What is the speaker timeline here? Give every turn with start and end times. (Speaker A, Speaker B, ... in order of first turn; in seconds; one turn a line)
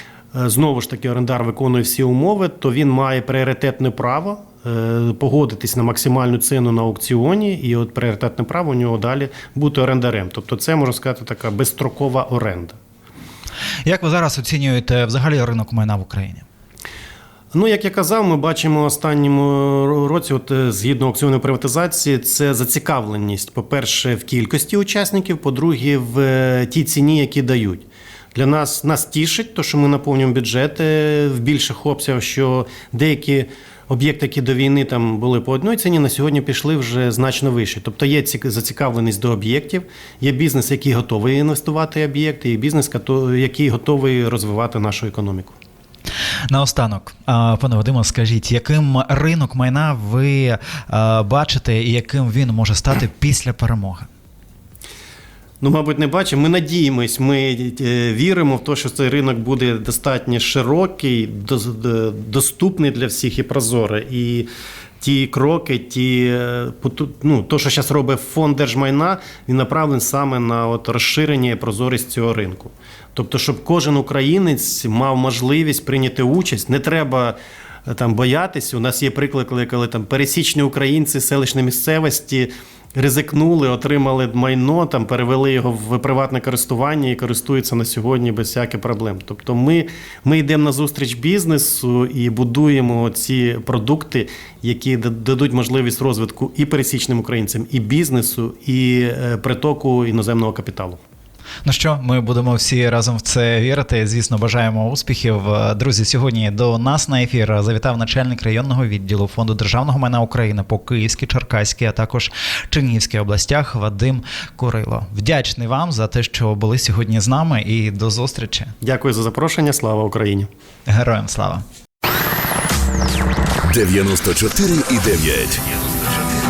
Speaker A: 0.3-12.8
Speaker B: 13.9-16.4
Speaker A: 17.5-45.6
Speaker B: 46.5-54.1
Speaker A: 55.6-64.5
Speaker A: 65.0-101.0
Speaker B: 101.7-118.7
Speaker A: 118.8-120.5
Speaker B: 120.9-121.6
Speaker C: 123.7-126.0